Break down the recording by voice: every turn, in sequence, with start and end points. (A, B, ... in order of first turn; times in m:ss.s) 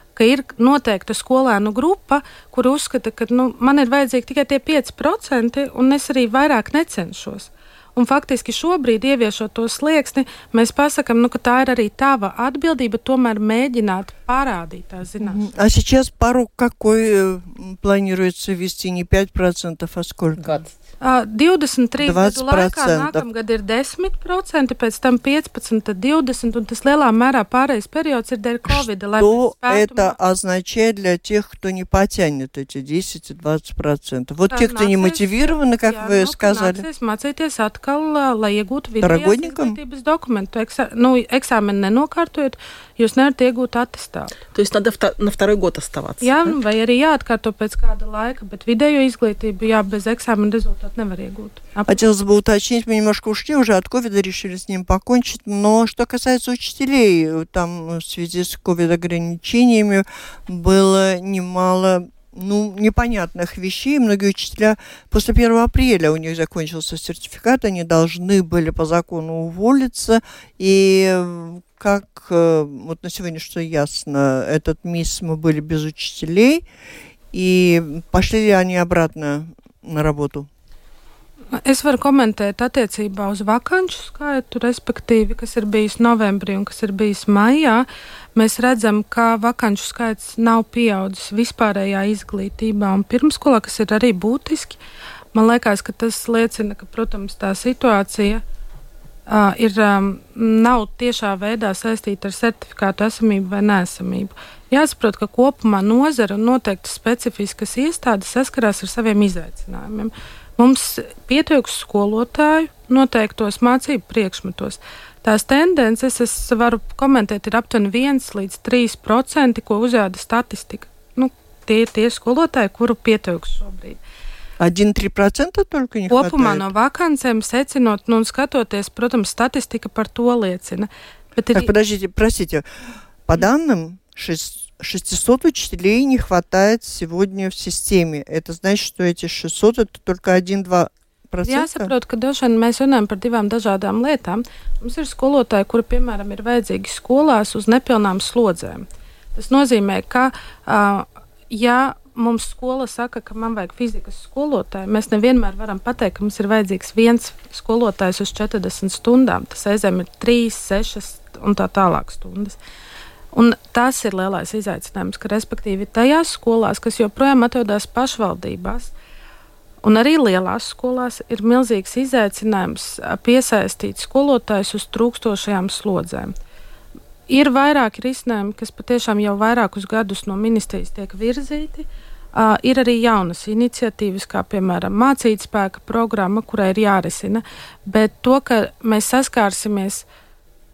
0:00.2-0:15.4 A
0:15.2-0:20.6 B
0:20.4-0:20.7 C
0:21.0-0:30.1 A
0:22.0-0:23.2 B
0:28.7-0:36.8 B
0:34.5-0:44.4 A
0:39.0-0:39.8 B
0:44.5-0:46.4 C
0:46.2-0:52.0 A
0:51.9-1:16.6 B
1:17.3-1:20.5 B
1:21.5-1:34.8 A
1:35.3-1:38.4 A
1:39.3-2:04.0 A
2:04.6-2:06.7 B
2:06.1-2:11.7 A
2:11.5-2:12.6 B
2:13.2-2:21.9 B
2:21.5-2:28.8 A
2:29.4-2:42.6 A
2:43.3-2:48.9 A
2:49.8-2:56.3 A
2:57.3-3:10.1 A